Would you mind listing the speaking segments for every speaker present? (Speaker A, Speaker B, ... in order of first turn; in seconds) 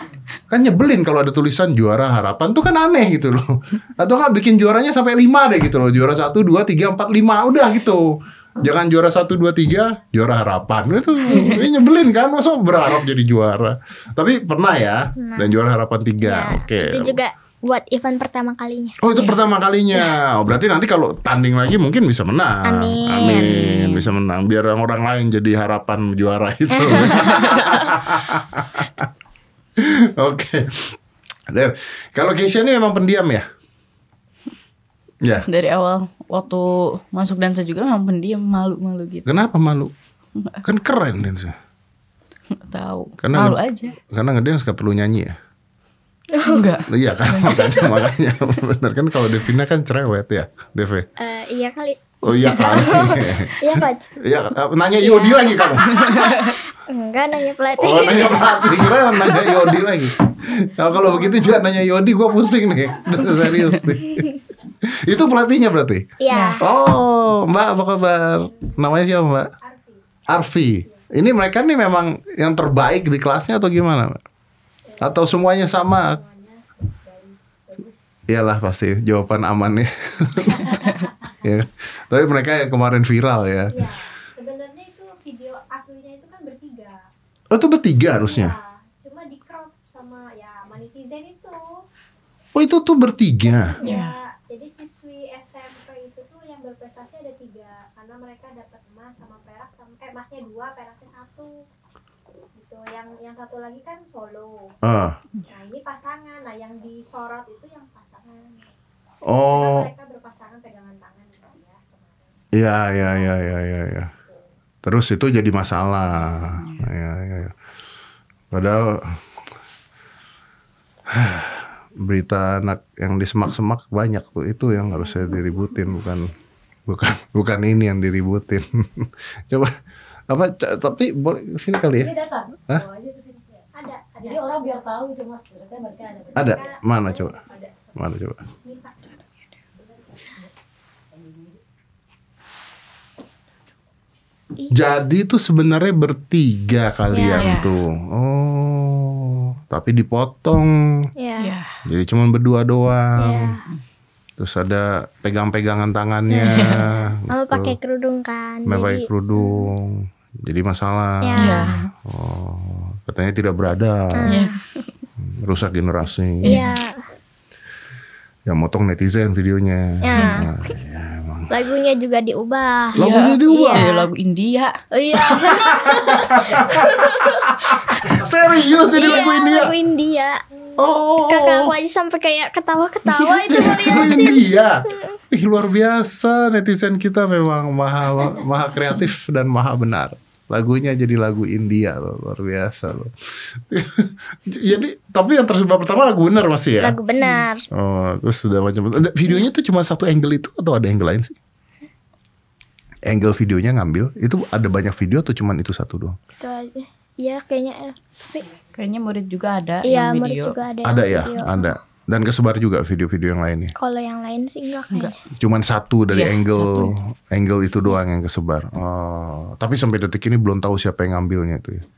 Speaker A: 0.5-17.2, 19.0-29.1, 29.8-31.0, 31.5-33.5, 35.2-35.5, 39.3-39.9, 40.6-41.6, 43.2-45.4, 46.9-51.1, 52.2-55.9, 57.8-64.3, 64.8-66.1, 66.6-69.5, 70.3-74.2, 75.0-76.2, 78.3-83.8, 87.5-88.5, 92.5-93.8, 104.8-105.2, 109.3-109.9, 112.5-114.1, 114.8-117.5, 118.5-119.2, 121.1-126.3, 126.9-129.7, 130.3-132.1, 136.3-137.4, 137.9-138.4, 144.7-151.1, 151.8-153.6, 154.4-157.8, 158.7-164.4, 165.2-166.6, 168.5-171.5, 173.0-173.9, 175.2-179.7, 180.8-181.8, 183.5-197.0, 197.7-201.4, 203.1-206.2, 210.8-213.7, 215.4-221.8
Speaker B: 15.2-15.5, 16.2-19.0, 22.6-23.5, 26.8-27.8, 46.3-46.7, 51.2-54.1, 55.0-59.8, 66.2-66.6, 147.1-147.5, 151.2-151.5, 153.2-153.6, 157.3-159.7, 161.2-161.8, 164.1-164.6, 166.4-167.0, 170.0-170.5, 171.5-174.1, 174.9-177.8, 178.9-180.4, 181.2-185.2, 196.8-197.7, 206.4-208.4, 209.8-211.7, 213.8-215.2
Speaker C: 23.4-24.1, 35.5-39.3, 42.7-44.0, 46.5-48.0, 56.0-56.5, 66.3-66.6, 93.8-94.2, 147.4-147.7, 151.4-151.7, 156.4-156.9, 161.4-161.9, 164.3-164.6, 166.4-166.7, 173.0-174.8, 183.2-183.8, 208.8-210.6, 216.1-216.9
Speaker D: 68.5-68.8, 69.4-70.2, 70.8-71.1, 74.9-78.1, 83.7-87.0, 88.1-91.8, 93.5-101.6, 102.5-104.8, 105.4-108.7, 109.5-113.5, 133.7-134.6, 136.4-137.8, 138.7-139.0
Speaker E: 132.0-133.6, 134.2-136.8, 137.6-137.9, 140.0-140.4, 141.2-141.5